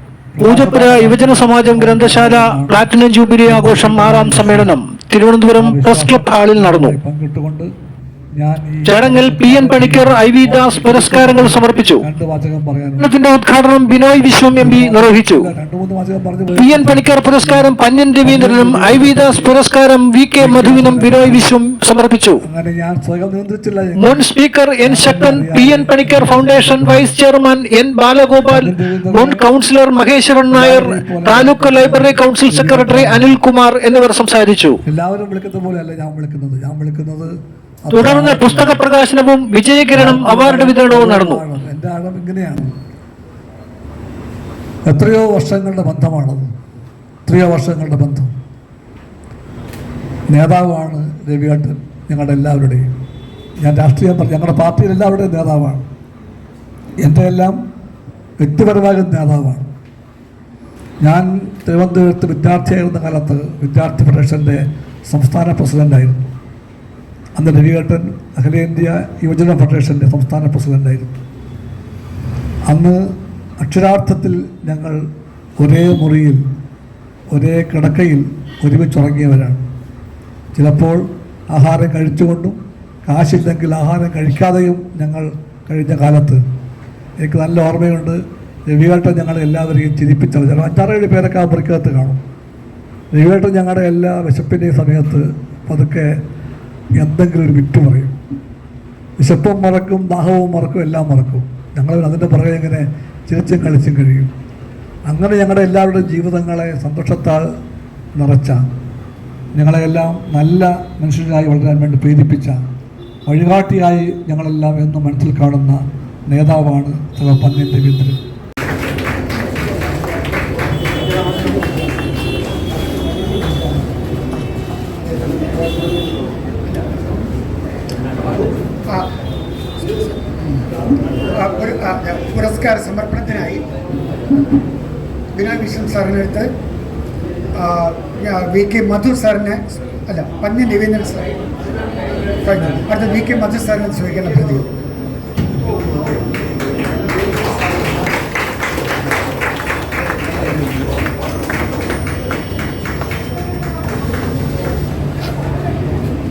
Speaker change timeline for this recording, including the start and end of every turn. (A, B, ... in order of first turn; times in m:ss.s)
0:00.3-0:02.9 A
0:00.4-0:06.9 B
0:03.4-0:04.7 A
0:05.6-0:07.7 A
0:08.4-0:13.1 A
0:08.8-0:12.0 B
0:13.0-0:15.5 B
0:14.5-0:19.6 A
0:16.5-0:22.4 B
0:20.4-0:21.6 A
0:22.4-0:24.2 A
0:24.0-0:34.8 B
0:24.8-0:27.1 A
0:28.5-0:29.4 A
0:30.5-0:33.4 A
0:34.8-0:38.8 A
0:37.9-0:41.4 B
0:39.9-0:42.7 A
0:44.8-0:46.5 A
0:47.2-0:48.3 A
0:50.3-0:52.9 A
0:53.6-0:55.8 A
0:57.0-0:57.6 A
0:58.4-0:59.7 A
1:01.0-1:06.3 A
1:07.4-1:11.1 A
1:12.7-1:13.0 A
1:13.6-1:15.0 A
1:15.6-1:16.4 A
1:17.3-1:19.6 A
1:20.5-1:26.4 A
1:27.2-1:32.2 A
1:33.1-1:36.1 A
1:37.0-1:38.1 A
1:39.2-1:44.3 A
1:45.1-1:47.4 A
1:48.1-1:48.6 A
1:49.5-1:52.6 A
1:53.2-1:58.2 A
2:11.2-2:13.6 C
2:15.3-2:16.5 C
2:17.5-2:21.3 C
2:22.4-2:24.7 C